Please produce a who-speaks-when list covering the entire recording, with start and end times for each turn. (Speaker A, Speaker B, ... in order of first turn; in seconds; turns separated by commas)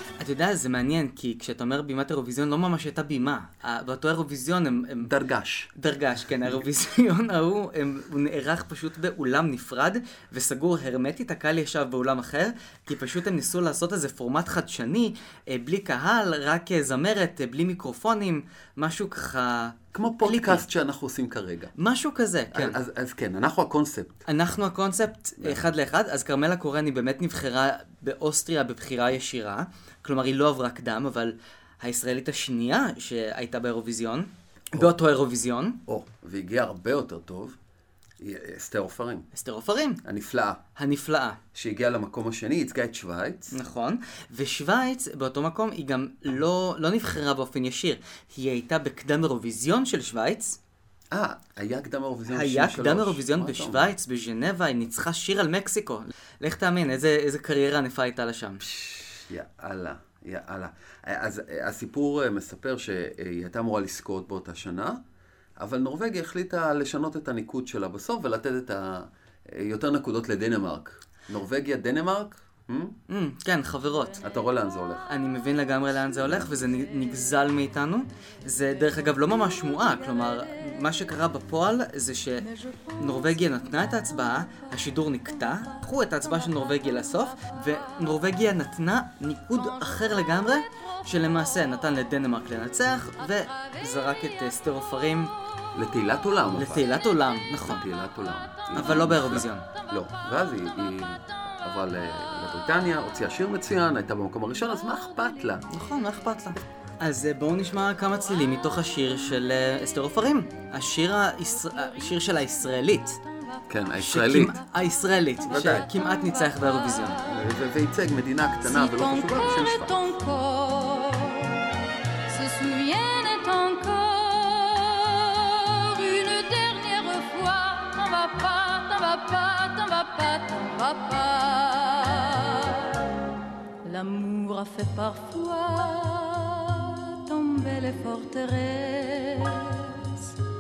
Speaker A: 0.2-5.1, Speaker B: 5.0-5.7, Speaker A: 5.8-20.6, Speaker B: 19.9-21.7, Speaker A: 21.8-22.8, Speaker B: 22.5-24.3, Speaker A: 24.3-35.8, Speaker B: 35.9-37.6, Speaker B: 38.2-39.3, Speaker A: 39.3-40.0, Speaker B: 40.0-40.6, Speaker A: 40.8-41.4, Speaker B: 41.5-43.6, Speaker A: 43.5-50.6, Speaker B: 51.1-53.9, Speaker A: 52.3-58.7, Speaker B: 58.6-65.0, Speaker B: 65.6-73.0, Speaker A: 73.1-74.2, Speaker B: 74.2-75.1, Speaker A: 75.1-95.3, Speaker B: 76.2-76.6, Speaker B: 95.7-96.9, Speaker A: 96.6-97.8, Speaker B: 97.7-105.6, Speaker A: 98.7-99.7, Speaker A: 105.7-113.2, Speaker B: 113.7-114.6, Speaker A: 114.0-117.2, Speaker B: 115.5-115.9, Speaker B: 117.2-120.0, Speaker C: 118.6-121.7, Speaker C: 122.3-133.2, Speaker C: 133.8-140.3